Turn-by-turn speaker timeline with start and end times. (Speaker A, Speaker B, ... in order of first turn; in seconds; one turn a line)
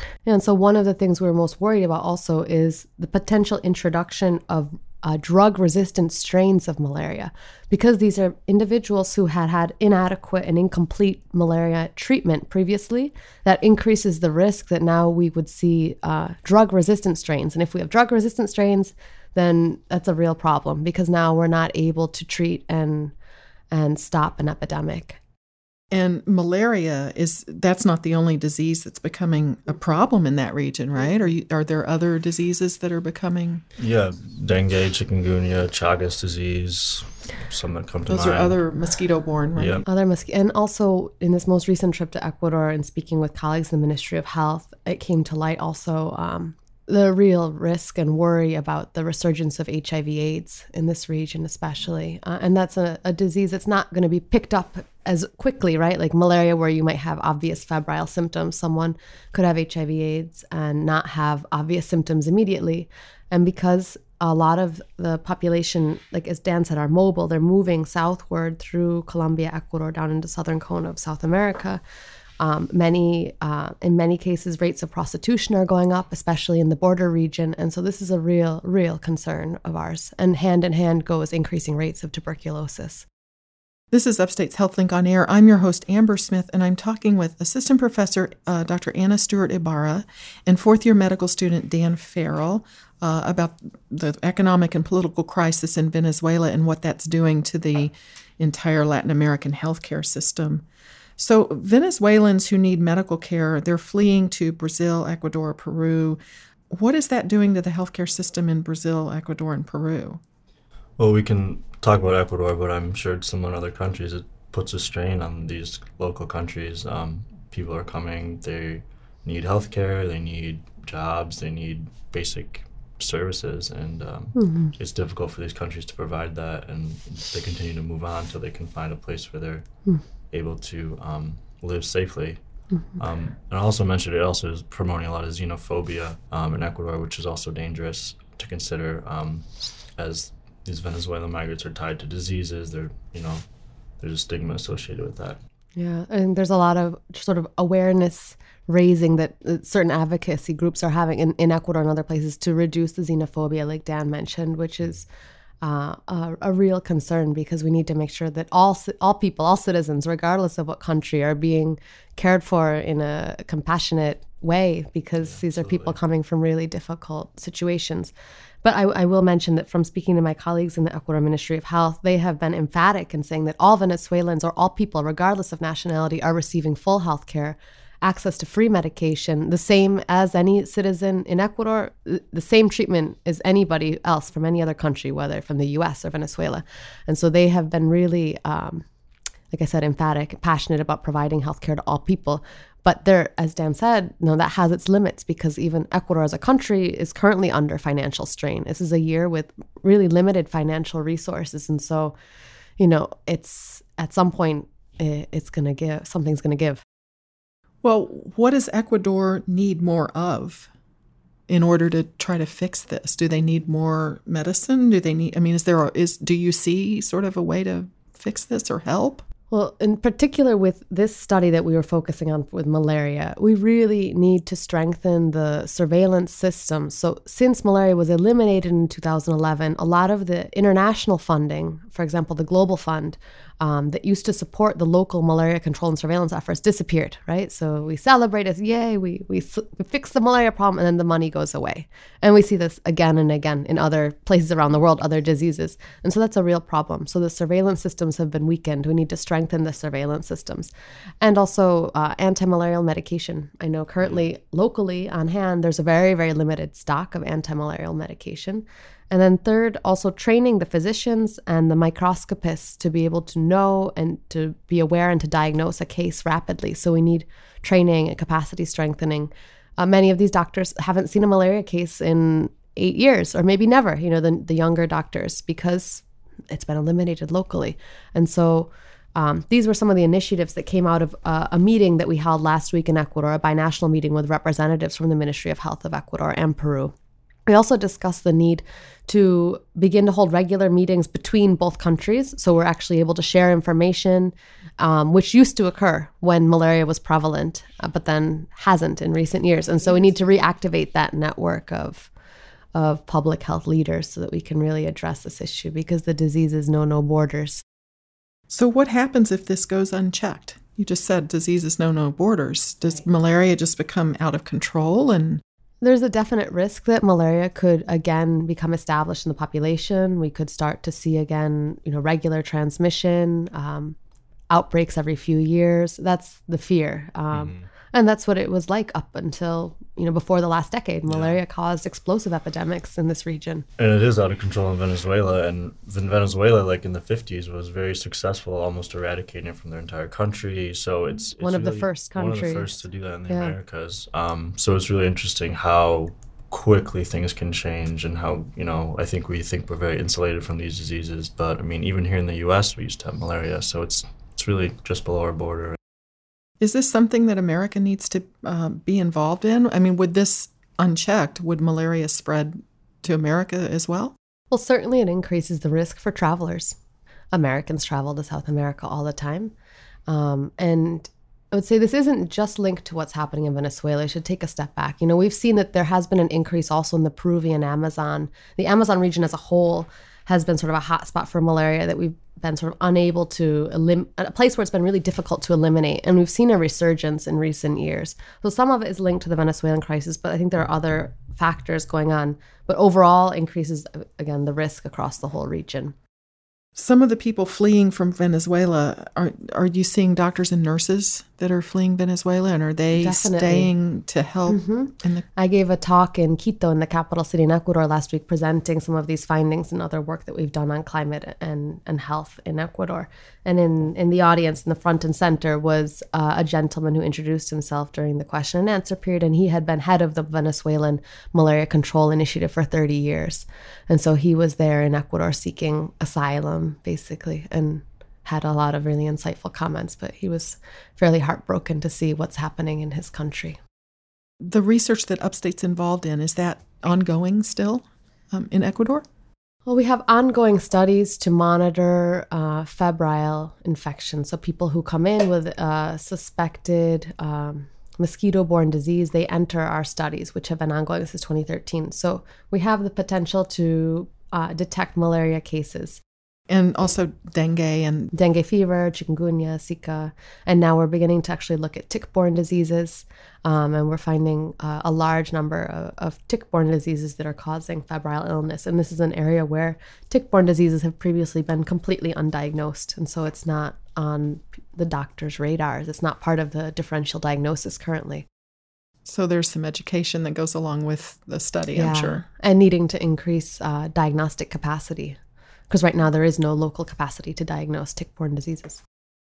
Speaker A: 0.2-23.1
Speaker A: 23.7-25.2
Speaker B: 25.9-33.6
Speaker C: 33.8-38.6
Speaker B: 38.1-39.8
Speaker C: 39.5-39.9
Speaker A: 39.9-71.8
Speaker A: 72.4-83.0
Speaker B: 83.9-100.6
Speaker B: 101.2-110.2
Speaker C: 111.0-129.6
Speaker A: 124.3-124.7
Speaker C: 130.3-132.4
Speaker A: 132.7-133.0
Speaker C: 132.9-143.4
Speaker C: 144.0-145.4
Speaker A: 145.8-155.1
Speaker A: 155.6-168.1
Speaker C: 165.2-166.0
Speaker A: 168.6-188.8
Speaker A: 189.5-202.2
Speaker A: 202.8-206.8
Speaker B: 207.8-210.7
Speaker B: 211.5-219.2
Speaker A: 219.5-286.9
Speaker A: 287.5-302.1
Speaker A: 302.7-307.6
Speaker B: 308.5-315.4
Speaker A: 315.8-323.9
Speaker A: 324.5-333.6
Speaker C: 327.3-327.7
Speaker C: 331.1-331.4
Speaker C: 333.8-355.8
Speaker A: 341.4-343.6
Speaker B: 356.6-364.1
Speaker A: 364.5-366.8
Speaker A: 367.3-369.5
Speaker A: 370.1-395.9
Speaker B: 396.7-405.3
Speaker A: 402.9-403.7
Speaker A: 404.5-433.6
Speaker B: 434.4-439.0
Speaker A: 439.6-456.0
Speaker B: 456.5-458.1
Speaker A: 458.1-478.2
Speaker B: 479.0-482.2
Speaker A: 481.7-485.2
Speaker A: 485.7-488.8